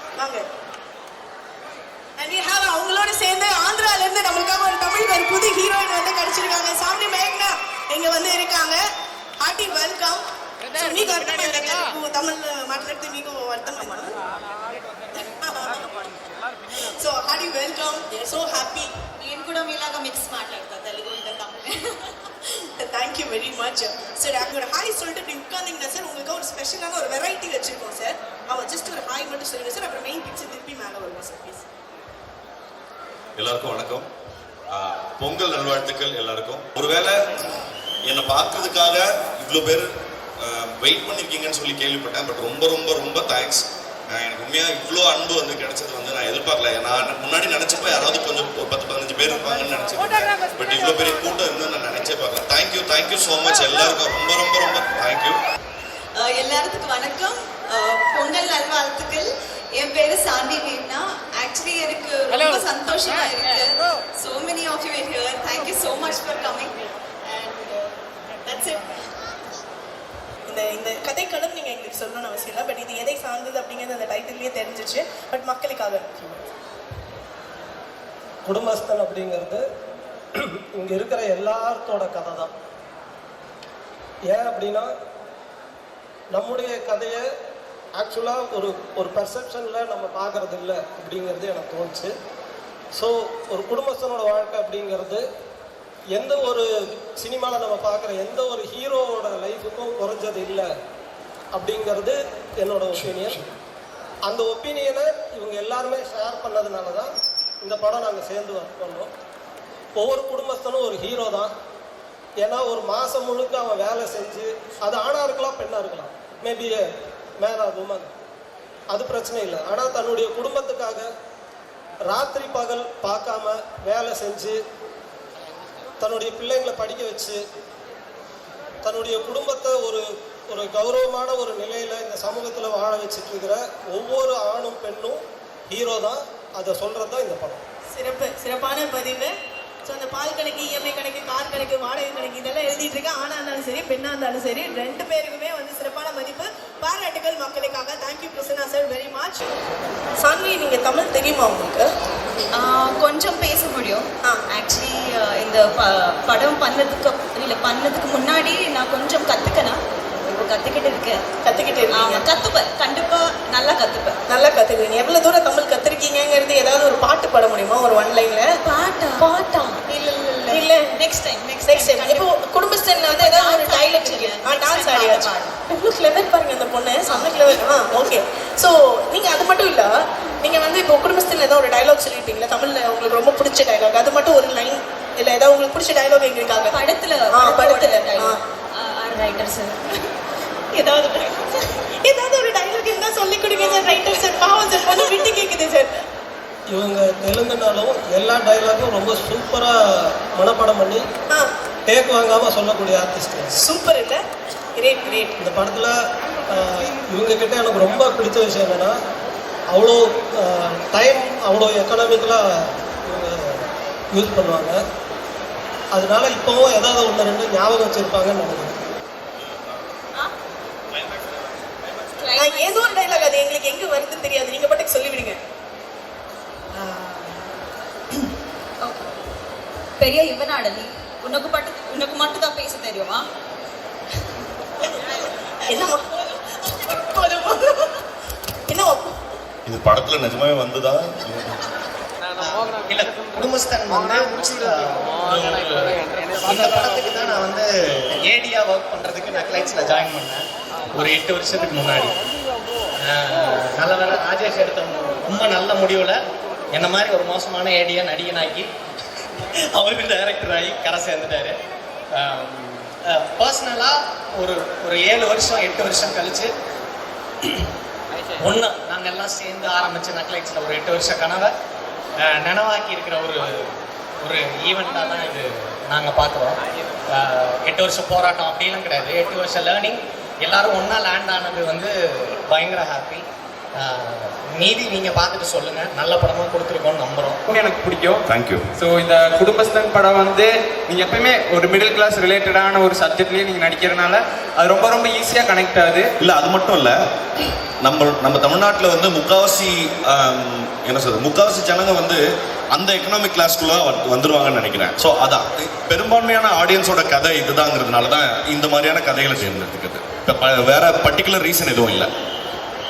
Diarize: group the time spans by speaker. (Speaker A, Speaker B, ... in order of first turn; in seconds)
Speaker A: 0.2-0.4, 2.2-8.8, 9.4-14.1, 15.2-16.0, 16.7-18.9, 22.7-31.7, 70.5-76.4, 137.9-139.3, 139.8-149.5, 150.2-151.9, 161.4-162.3, 164.3-168.5, 169.2-169.8, 170.5-171.0, 171.7-186.8, 187.3-188.4, 192.0-196.0, 203.5-204.2, 204.8-205.3, 222.4-225.4, 235.7-236.1, 236.7-238.0, 238.7-239.1
Speaker B: 19.2-22.3, 56.1-66.8, 67.3-67.8, 68.4-68.9, 152.5-159.8, 160.3-161.2, 161.9-164.2, 168.6-169.3, 169.8-172.2, 173.2-175.6, 177.1-177.5, 186.7-190.1, 190.8-191.6, 222.2-223.3, 226.8-227.3, 230.0-233.2
Speaker C: 33.4-34.1, 34.7-55.4, 219.4-219.6, 220.9-222.1, 239.7-241.6, 288.3-288.6, 296.2-312.1
Speaker D: 78.5-79.6, 80.3-82.5, 84.3-84.9, 86.3-87.2, 88.0-92.1, 93.0-95.2, 96.1-100.7, 101.5-103.4, 104.3-107.1, 107.6-109.1, 110.0-111.5, 112.4-118.1, 118.9-121.1, 122.0-124.6, 126.0-127.4, 128.8-137.6, 196.7-201.0, 201.9-203.5, 205.4-205.9, 206.5-208.9, 209.7-213.6, 214.1-214.8, 215.9-218.8
Speaker E: 242.4-252.1, 253.0-261.6, 262.1-266.5, 267.4-267.7, 268.4-271.5, 272.2-287.4
Speaker F: 287.5-288.2, 288.7-296.1